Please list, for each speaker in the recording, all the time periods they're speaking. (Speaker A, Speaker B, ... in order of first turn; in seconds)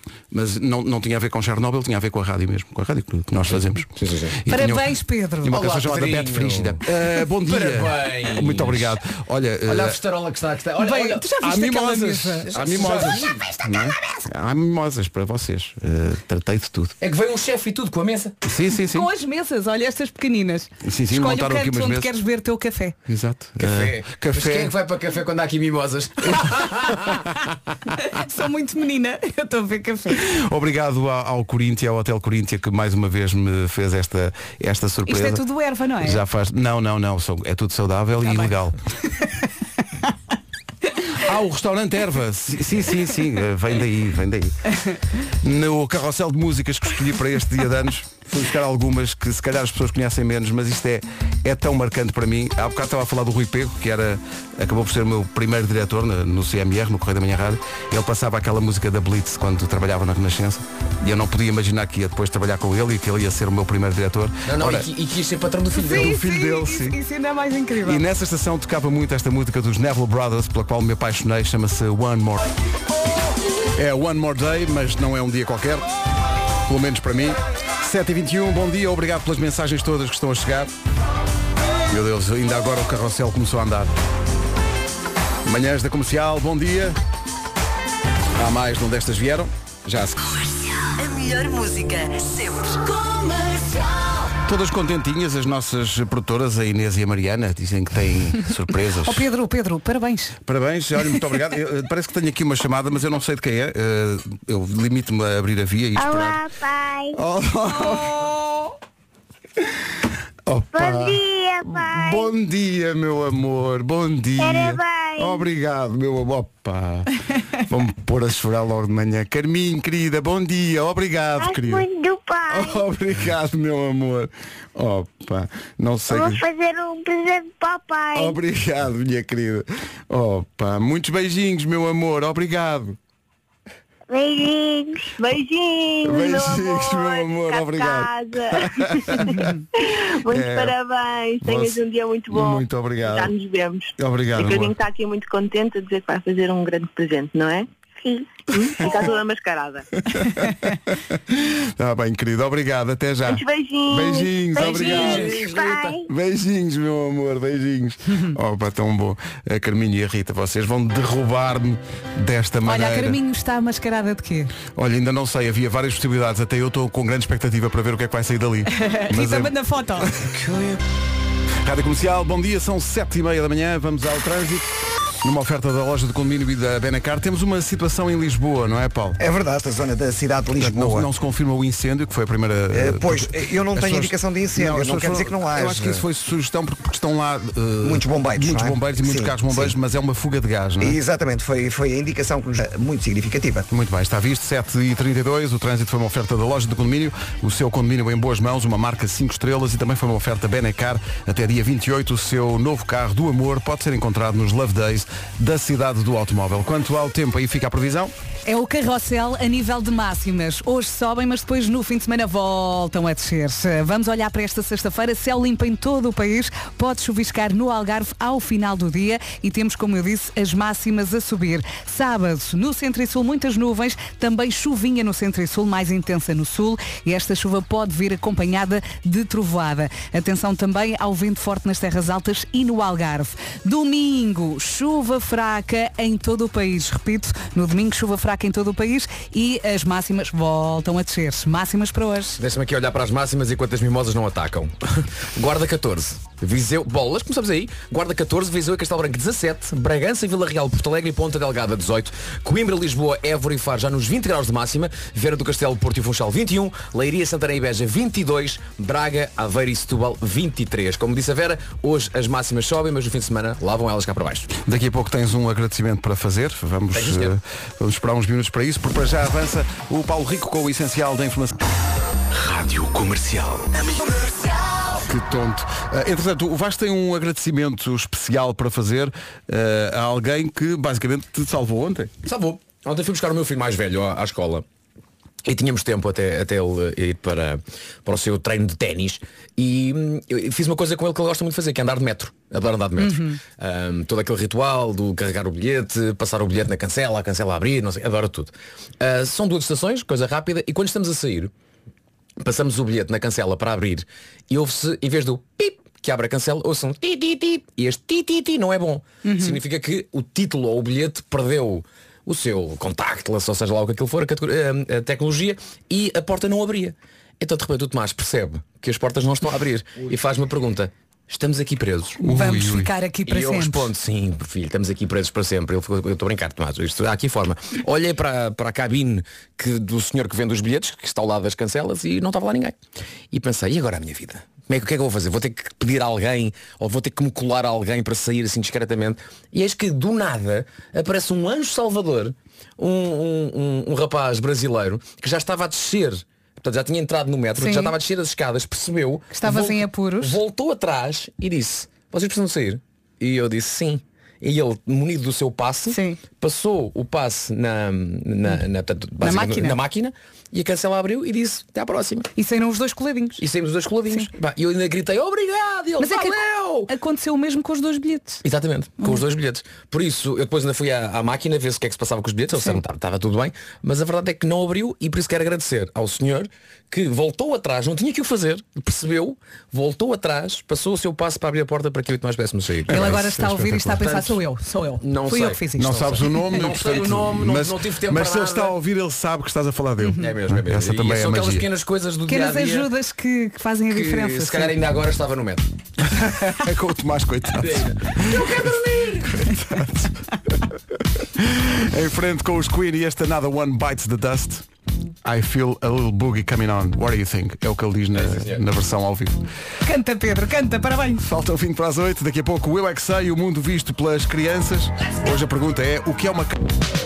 Speaker A: 0.3-10.0, 11.4-16.9, 18.4-19.1, 20.8-22.1, 23.1-24.7, 30.2-35.4, 36.0-38.8, 41.1-44.5, 45.4-64.8, 65.9-67.0, 67.8-72.5, 73.8-75.8, 76.7-80.7, 81.9-83.9, 85.4-87.0, 88.4-90.2, 94.4-99.3, 100.5-106.4, 107.1-108.3, 110.5-121.9, 122.5-126.4, 128.2-133.0, 136.0-139.5, 140.3-140.7, 141.4-141.8, 142.3-143.3, 144.0-144.7, 150.0-155.4, 156.1-163.2, 164.7-170.8, 171.6-174.7, 175.2-179.2, 180.6-191.0, 193.7-208.1, 264.6-271.6, 274.9-282.1, 322.2-322.9, 382.9-384.3, 385.8-391.6, 396.0-400.2, 401.4-404.6, 405.2-409.4, 411.2-416.6
Speaker B: 3.5-4.4, 5.5-8.9, 9.7-11.3, 12.5-14.1, 17.0-18.4, 23.6-27.2, 64.5-66.2, 154.6-156.0, 242.4-264.5, 266.9-267.4, 272.3-274.5, 282.2-284.6, 285.4-301.5, 302.4-322.2, 323.2-332.8, 333.3-362.3, 363.4-366.9, 368.4-383.1, 385.0-388.8, 390.2-392.9, 393.9-395.7, 397.6-399.4, 408.1-408.6
Speaker C: 4.5-5.5, 10.8-12.5, 18.8-23.0, 28.0-30.2, 35.1-36.2, 65.7-68.0, 99.0-100.4, 107.9-108.7, 139.3-139.6, 162.6-164.5, 168.7-170.1, 208.4-242.4, 293.0-293.4, 309.2-309.6, 322.3-323.9, 347.6-347.9, 349.3-350.4, 355.9-356.2, 359.2-359.8, 362.4-363.4, 366.0-368.4, 382.9-386.6, 390.0-390.2, 392.3-394.8, 409.8-411.2
Speaker D: 91.0-93.4
Speaker E: 106.0-107.2, 110.7-112.3, 114.4-115.4, 121.4-122.8, 126.1-128.4, 134.1-135.1, 148.0-148.3, 154.5-156.1
Speaker F: 135.1-147.7, 148.5-149.8, 153.2-155.3
Speaker G: 179.2-181.1, 182.7-186.0, 187.8-189.8, 190.8-193.7